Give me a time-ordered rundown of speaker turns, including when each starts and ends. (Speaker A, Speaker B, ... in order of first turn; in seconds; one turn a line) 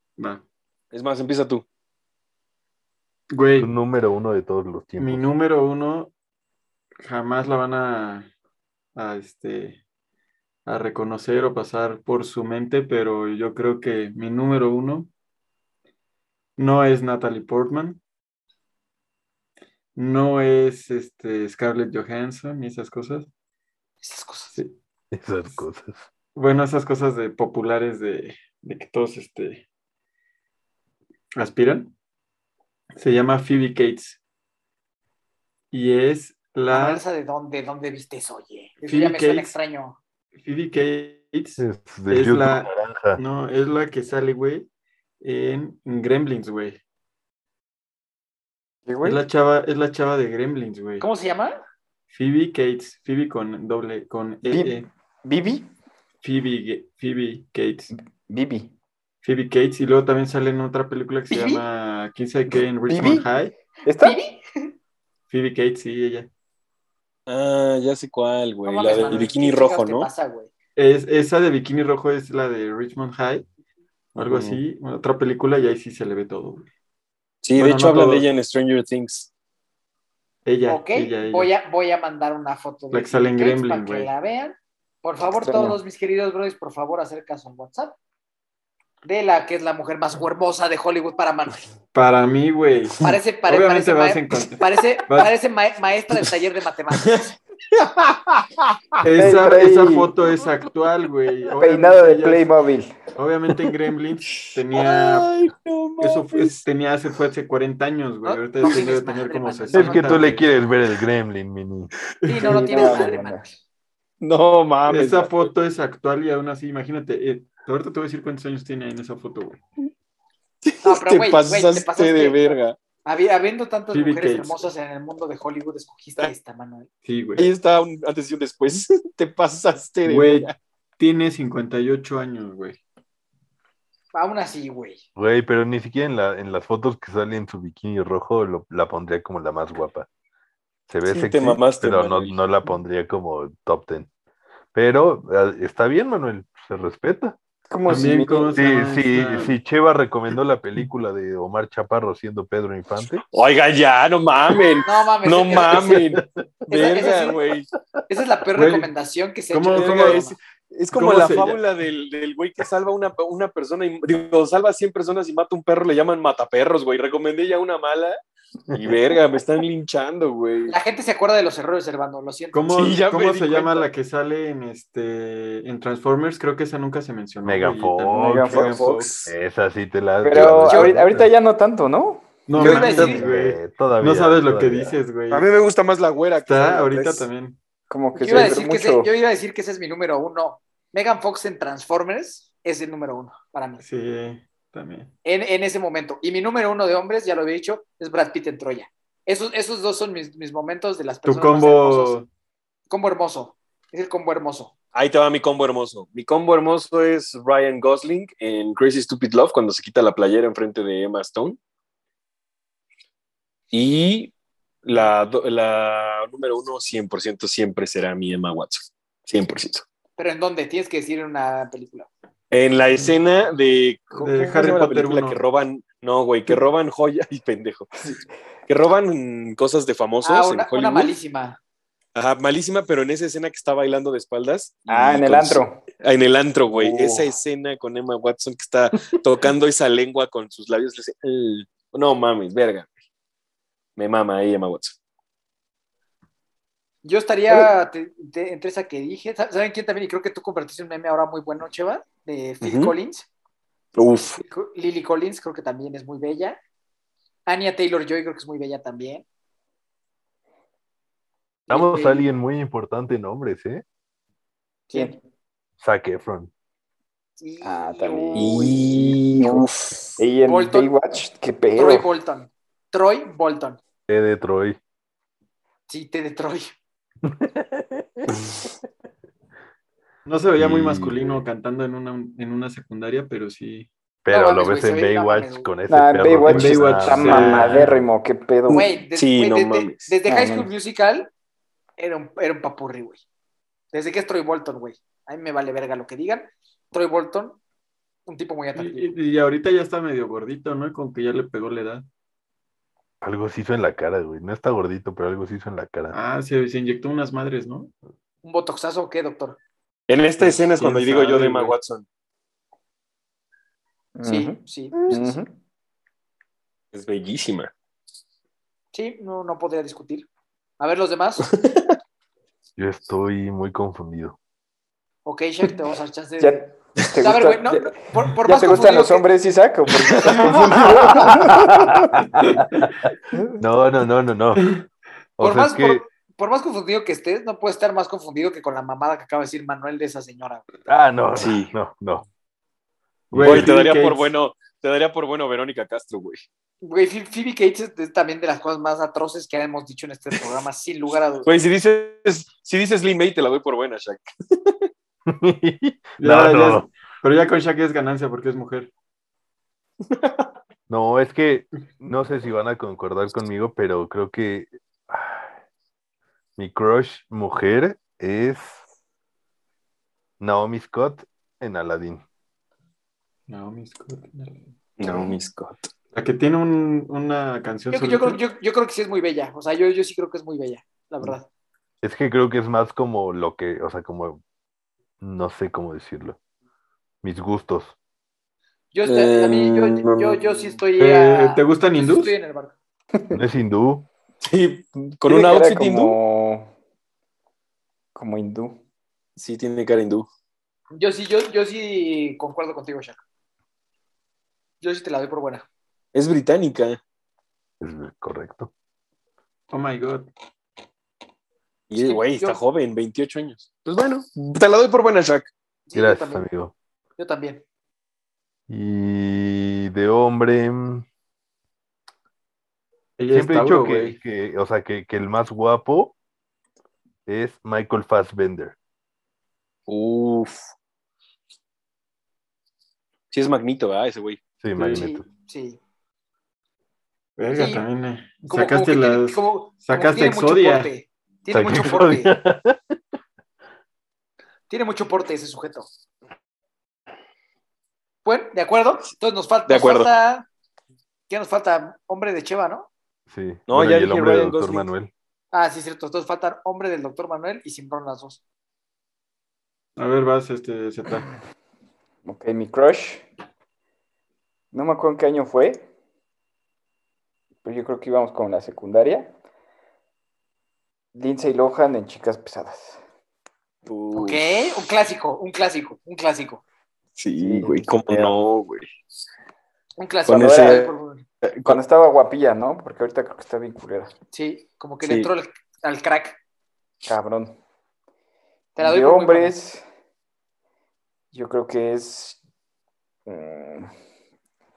Speaker A: 0.2-0.4
Speaker B: 0.9-1.6
Speaker A: 3.3-3.7
Speaker C: 3.6-5.3
Speaker A: 5.0-6.1
Speaker A: 7.0-8.3
Speaker A: 9.0-9.8
Speaker A: 10.7-15.1
Speaker A: 16.6-18.0
Speaker A: 20.0-23.3
Speaker D: 24.0-24.6
Speaker C: 25.1-26.1
Speaker A: 26.4-29.6
Speaker A: 31.4-31.9
Speaker A: 33.0-34.2
Speaker A: 35.7-37.0
Speaker D: 36.7-40.0
Speaker A: 38.8-39.5
Speaker A: 40.4-44.7
Speaker C: 41.6-43.2
Speaker A: 45.2-46.8
Speaker E: 48.9-49.2
Speaker A: 49.0-51.1
Speaker D: 51.0-51.6
Speaker A: 52.1-54.9
Speaker E: 54.5-55.7
Speaker A: 56.2-57.9
Speaker E: 58.3-58.7
Speaker A: 59.2-63.5
Speaker D: 61.3-61.6
Speaker E: 62.9-63.3
Speaker E: 63.9-64.2
Speaker D: 64.0-64.7
Speaker A: 65.3-66.3
Speaker B: 67.3-70.1
Speaker D: 68.7-70.5
Speaker A: 70.8-73.5
Speaker A: 74.2-76.7
Speaker B: 74.3-74.6
Speaker B: 77.4-79.3
Speaker A: 77.6-78.3
Speaker A: 80.5-81.5
Speaker D: 80.7-88.0
Speaker A: 82.9-84.1
Speaker E: 85.4-85.8
Speaker D: 89.0-91.7
Speaker A: 91.9-95.3
Speaker D: 93.0-97.3
Speaker B: 96.9-99.3
Speaker A: 99.0-102.5
Speaker E: 99.2-100.1
Speaker E: 101.6-103.0
Speaker A: 103.2-105.3
Speaker B: 104.3-106.6
Speaker A: 106.0-110.5
Speaker D: 108.2-110.4
Speaker C: 109.7-111.9
Speaker A: 112.2-113.1
Speaker D: 112.3-113.6
Speaker E: 112.4-113.5
Speaker B: 114.2-115.5
Speaker A: 114.9-119.6
Speaker B: 120.6-122.8
Speaker D: 120.8-126.9
Speaker A: 123.9-124.7
Speaker A: 127.0-127.5
Speaker B: 127.4-130.6
Speaker A: 130.1-132.8
Speaker D: 134.1-135.0
Speaker C: 135.2-140.1
Speaker C: 140.9-144.1
Speaker B: 141.1-142.4
Speaker C: 144.8-147.4
Speaker E: 147.7-148.6
Speaker A: 147.9-149.6
Speaker C: 148.6-153.2
Speaker B: 153.3-157.7
Speaker D: 154.9-156.1
Speaker D: 156.7-157.4
Speaker D: 158.1-160.3
Speaker A: 158.6-158.9
Speaker A: 159.5-160.3
Speaker B: 159.7-168.2
Speaker A: 160.9-161.6
Speaker B: 168.7-170.8
Speaker D: 170.7-172.7
Speaker A: 172.5-179.1
Speaker B: 172.7-173.9
Speaker C: 177.4-178.7
Speaker E: 178.2-179.1
Speaker B: 178.6-179.3
Speaker C: 179.2-181.3
Speaker E: 180.2-182.3
Speaker D: 180.7-181.0
Speaker A: 182.5-185.5
Speaker D: 182.6-183.3
Speaker B: 182.6-183.1
Speaker C: 182.9-185.0
Speaker B: 185.3-187.3
Speaker A: 186.5-187.6
Speaker E: 187.9-189.1
Speaker D: 188.2-193.8
Speaker A: 193.8-195.1
Speaker D: 195.2-202.2
Speaker A: 201.3-202.3
Speaker D: 202.9-204.7
Speaker B: 204.9-211.6
Speaker B: 213.7-214.3
Speaker B: 214.8-219.8
Speaker D: 220.2-222.1
Speaker B: 222.5-227.9
Speaker A: 224.2-225.4
Speaker B: 228.7-231.1
Speaker D: 230.2-231.6
Speaker B: 232.2-242.9
Speaker E: 234.9-235.8
Speaker E: 236.7-237.3
Speaker B: 244.0-245.0
Speaker D: 247.0-253.3
Speaker B: 252.6-252.9
Speaker B: 254.0-254.4
Speaker D: 254.4-256.6
Speaker D: 257.5-259.2
Speaker D: 261.7-262.3
Speaker C: 261.7-263.8
Speaker D: 264.9-265.2
Speaker C: 265.8-266.5
Speaker D: 267.4-268.7
Speaker E: 267.6-269.7
Speaker B: 268.4-270.2
Speaker E: 270.2-272.1
Speaker D: 270.4-270.9
Speaker D: 271.8-273.8
Speaker C: 274.1-274.8
Speaker D: 275.9-276.7
Speaker C: 277.2-278.3
Speaker A: 280.3-283.9
Speaker C: 280.6-281.4
Speaker C: 284.2-287.9
Speaker D: 284.3-285.7
Speaker E: 285.9-288.9
Speaker A: 286.5-288.0
Speaker D: 288.7-291.3
Speaker B: 288.8-290.1
Speaker E: 290.3-290.7
Speaker D: 292.0-293.2
Speaker D: 293.9-297.6
Speaker D: 298.3-299.1
Speaker A: 298.7-302.1
Speaker C: 303.2-306.2
Speaker A: 306.1-307.9
Speaker D: 308.4-309.6
Speaker B: 310.1-312.1
Speaker A: 310.4-311.8
Speaker E: 314.2-315.5
Speaker D: 314.2-315.4
Speaker B: 316.9-317.7
Speaker D: 318.9-320.3
Speaker D: 320.8-321.5
Speaker B: 321.4-321.9
Speaker C: 322.8-324.4
Speaker D: 325.2-326.6
Speaker E: 326.4-332.2
Speaker D: 327.2-329.3
Speaker B: 330.1-330.5
Speaker C: 331.5-332.6
Speaker C: 333.6-334.7
Speaker C: 335.4-336.1
Speaker D: 335.4-340.6
Speaker C: 340.9-342.2
Speaker B: 341.4-341.7
Speaker A: 343.3-344.3
Speaker C: 343.4-343.7
Speaker B: 343.4-346.4
Speaker D: 346.8-351.5
Speaker B: 351.4-354.9
Speaker C: 355.3-356.9
Speaker A: 356.2-358.9
Speaker B: 360.1-360.5
Speaker C: 360.9-365.5
Speaker C: 366.6-368.8
Speaker C: 370.4-372.2
Speaker A: 373.5-375.1
Speaker B: 375.0-375.9
Speaker A: 376.1-378.4
Speaker D: 377.9-381.5
Speaker C: 382.0-384.4
Speaker C: 385.2-386.4
Speaker C: 387.2-388.0
Speaker D: 388.9-392.7
Speaker B: 389.1-390.6
Speaker A: 391.0-392.3
Speaker C: 393.3-394.1
Speaker B: 394.4-396.2
Speaker E: 395.0-396.7
Speaker E: 398.1-398.8
Speaker B: 399.4-400.3
Speaker D: 400.9-403.2
Speaker D: 404.8-405.6
Speaker B: 406.1-407.0
Speaker C: 407.8-408.7
Speaker A: 409.7-410.3
Speaker B: 411.9-415.5
Speaker D: 412.0-412.6
Speaker D: 415.9-416.4
Speaker C: 415.9-416.7
Speaker D: 417.2-417.6
Speaker C: 418.7-421.1
Speaker A: 423.2-424.2
Speaker C: 423.3-426.1
Speaker C: 427.3-428.8
Speaker B: 429.9-430.7
Speaker B: 433.3-434.4
Speaker C: 434.6-435.2
Speaker A: 434.8-435.1
Speaker D: 434.8-435.8
Speaker A: 437.4-440.9
Speaker D: 437.5-437.8
Speaker D: 438.5-442.3
Speaker C: 441.5-443.0
Speaker D: 444.7-445.9
Speaker D: 448.2-450.5
Speaker B: 449.7-450.1
Speaker D: 451.3-452.9
Speaker C: 453.3-455.1
Speaker B: 453.7-454.9
Speaker D: 455.5-458.4
Speaker A: 460.0-461.3
Speaker E: 462.2-463.3
Speaker E: 464.7-465.9
Speaker E: 467.6-469.3
Speaker E: 471.1-473.0
Speaker B: 473.9-474.7
Speaker D: 474.1-476.6
Speaker B: 477.2-478.9
Speaker E: 477.4-478.4
Speaker D: 480.0-481.3
Speaker B: 480.3-481.8
Speaker E: 480.3-480.8
Speaker E: 481.6-484.1
Speaker D: 484.3-486.4
Speaker B: 485.0-485.3
Speaker E: 487.1-487.6
Speaker D: 488.8-489.6
Speaker E: 488.8-489.9
Speaker E: 491.3-492.4
Speaker E: 493.3-493.9